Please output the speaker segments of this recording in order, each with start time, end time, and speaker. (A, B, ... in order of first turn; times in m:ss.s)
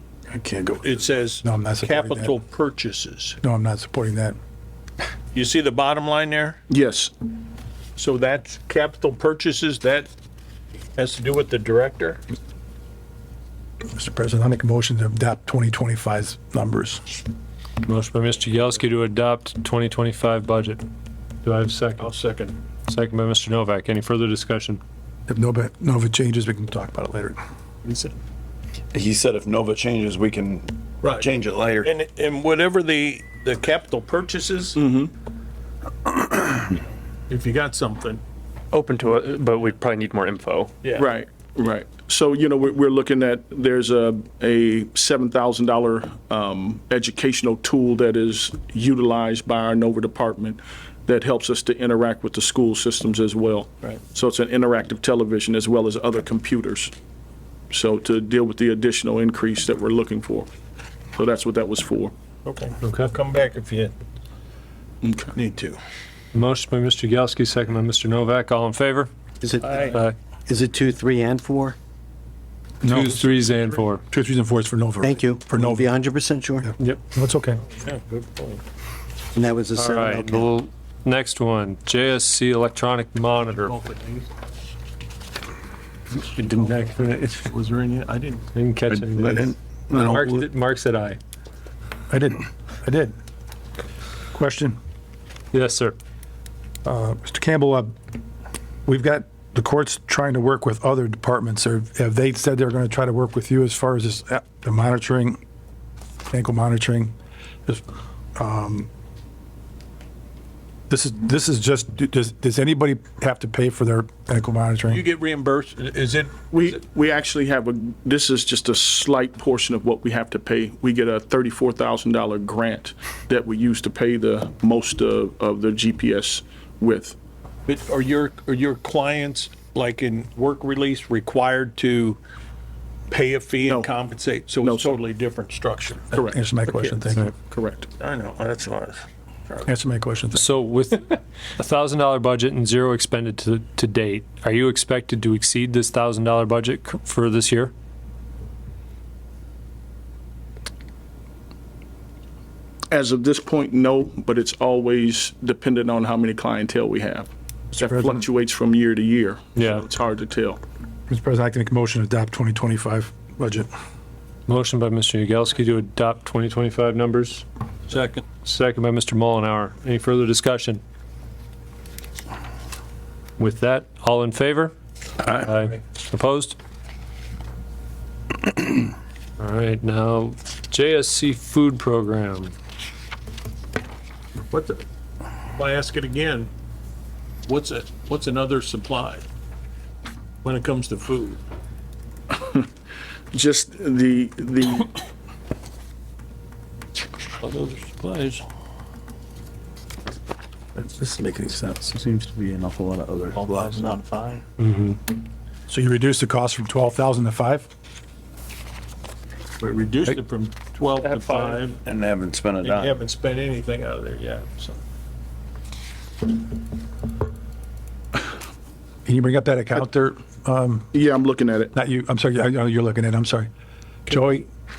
0:00.4-0:00.7 A
0:00.8-0:03.4 B
0:01.4-0:02.3 A
0:03.4-0:04.4 A
0:05.3-0:06.6 B
0:06.7-0:07.1 C
0:08.0-0:10.1 B
0:11.0-0:12.2 B
0:13.9-0:17.0 A
0:17.8-0:20.8 D
0:21.4-0:22.1 D
0:22.0-0:22.6 B
0:22.9-0:24.8 D
0:25.3-0:27.4 A
0:27.8-0:28.1 B
0:28.9-0:31.9 E
0:31.0-0:34.8 B
0:34.8-0:35.1 C
0:37.3-0:38.2 B
0:38.7-0:40.7 F
0:40.8-0:41.1 B
0:41.0-0:56.9 C
0:57.7-1:00.5 C
1:01.2-1:02.1 C
1:02.4-1:03.9 B
1:05.0-1:05.3 C
1:05.3-1:05.8 B
1:06.3-1:09.1 D
1:09.4-1:09.8 G
1:09.6-1:10.0 B
1:09.9-1:10.1 D
1:10.5-1:11.8 G
1:12.8-1:13.2 A
1:12.8-1:14.0 D
1:14.1-1:16.0 A
1:15.0-1:16.7 G
1:16.6-1:17.6 A
1:17.8-1:18.6 B
1:19.3-1:20.5 G
1:19.7-1:23.8 D
1:23.4-1:24.3 B
1:26.2-1:27.5 D
1:26.4-1:28.5 B
1:28.5-1:31.2 D
1:28.9-1:30.5 E
1:32.1-1:33.1 A
1:34.3-1:34.8 A
1:35.5-1:36.0 D
1:36.8-1:37.9 A
1:38.8-1:45.4 A
1:46.3-1:47.1 A
1:48.4-1:48.9 A
1:50.9-1:55.0 A
1:54.9-1:56.8 B
1:56.5-2:07.2 C
2:07.7-2:12.2 B
2:13.1-2:16.9 B
2:14.6-2:14.9 C
2:16.2-2:17.3 A
2:17.2-2:17.9 C
2:18.0-2:19.7 B
2:19.6-2:20.5 A
2:20.3-2:27.7 D
2:32.9-2:40.6 C
2:37.8-2:38.2 A
2:39.6-2:39.8 D
2:41.1-2:43.7 A
2:44.5-2:47.4 D
2:47.9-2:48.2 B
2:48.4-2:50.8 D
2:53.4-2:54.7 D
2:55.2-2:56.6 D
2:59.4-3:02.5 D
3:04.5-3:04.8 B
3:05.5-3:06.5 B
3:07.5-3:09.2 B
3:10.4-3:11.4 B
3:12.4-3:12.6 C
3:13.3-3:14.9 C
3:17.4-3:18.4 B
3:20.8-3:23.9 E
3:23.3-3:24.4 B
3:24.6-3:25.0 D
3:25.7-3:27.7 A
3:29.6-3:31.8 B
3:31.1-3:31.6 D
3:31.8-3:33.0 E
3:32.6-3:34.8 B
3:39.0-3:40.9 A
3:40.9-3:41.7 C
3:41.7-3:43.5 A
3:44.0-3:44.5 A